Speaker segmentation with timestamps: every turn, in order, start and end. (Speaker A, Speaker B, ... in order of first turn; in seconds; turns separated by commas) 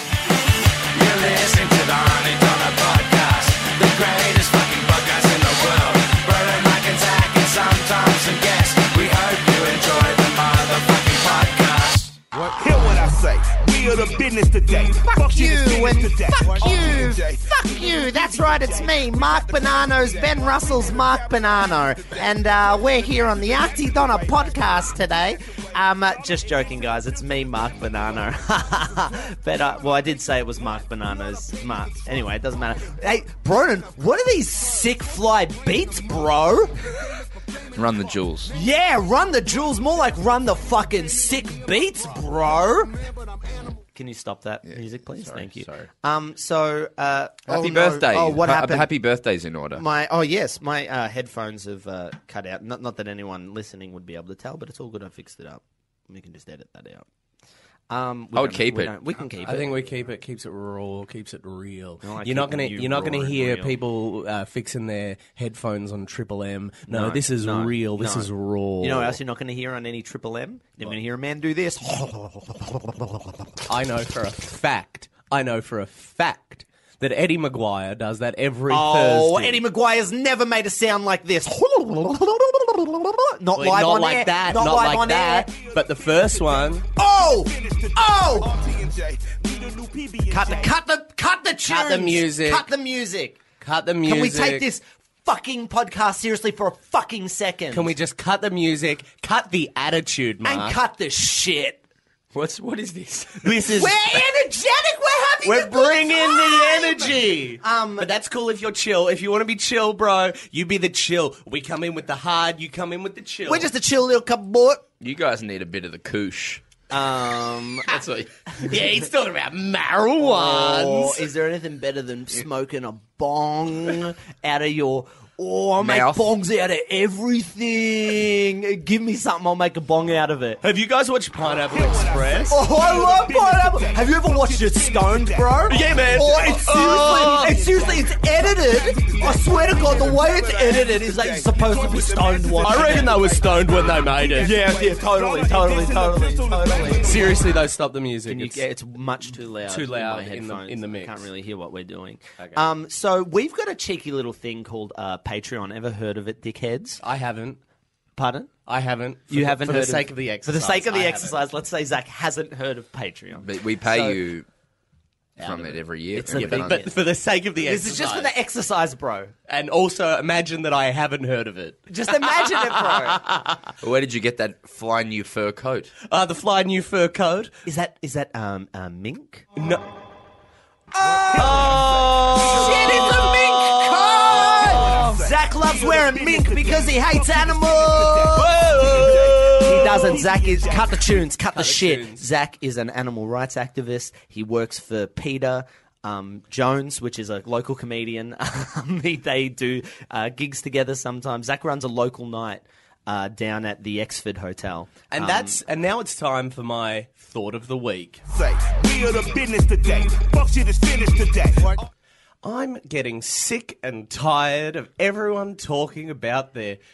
Speaker A: 0.9-12.2, Speaker B: 12.3-21.4, Speaker C: 15.1-37.0, Speaker B: 23.7-24.6, Speaker D: 37.7-38.5, Speaker C: 38.5-43.0, Speaker B: 43.4-43.7, Speaker C: 43.9-48.9, Speaker D: 44.6-45.9, Speaker D: 47.5-49.8, Speaker C: 49.8-57.0, Speaker C: 57.9-59.8, Speaker D: 58.3-58.9, Speaker E: 59.4-69.2, Speaker C: 62.0-63.8, Speaker C: 66.9-73.5, Speaker E: 73.7-79.6, Speaker C: 78.7-85.5, Speaker E: 83.5-86.8, Speaker B: 85.5-90.8, Speaker C: 87.0-88.6, Speaker C: 90.3-93.4, Speaker E: 91.6-92.7, Speaker E: 93.6-94.7, Speaker C: 94.0-97.9, Speaker E: 97.7-100.8, Speaker C: 100.4-101.8, Speaker D: 102.3-103.6, Speaker E: 103.4-104.0, Speaker C: 103.7-108.1, Speaker E: 105.4-113.7, Speaker C: 113.5-114.8, Speaker D: 115.0-116.6, Speaker C: 116.9-117.9, Speaker D: 117.9-118.3, Speaker E: 118.6-121.2, Speaker C: 120.2-130.6, Speaker D: 125.8-126.3, Speaker E: 130.6-132.6, Speaker B: 131.4-147.6, Speaker C: 132.5-143.2, Speaker E: 135.7-137.6, Speaker E: 142.6-144.6, Speaker C: 144.3-147.3, Speaker E: 147.0-148.6, Speaker C: 148.2-157.0, Speaker E: 149.7-151.3, Speaker E: 157.0-157.6, Speaker C: 158.2-158.5, Speaker E: 158.7-161.4, Speaker C: 159.3-164.1, Speaker D: 163.4-164.5, Speaker E: 165.4-168.3, Speaker D: 165.4-166.8, Speaker C: 166.1-166.9, Speaker C: 167.6-169.3, Speaker E: 169.5-172.6, Speaker C: 171.9-173.3, Speaker E: 173.2-173.5, Speaker D: 173.8-175.9, Speaker E: 176.1-177.5, Speaker C: 177.6-179.5, Speaker E: 179.6-179.8, Speaker C: 180.9-205.6, Speaker B: 181.0-183.4, Speaker E: 181.3-185.2, Speaker B: 184.1-191.2, Speaker E: 188.3-190.2, Speaker E: 191.5-192.3, Speaker E: 205.1-208.2, Speaker B: 208.3-211.8, Speaker E: 212.4-216.8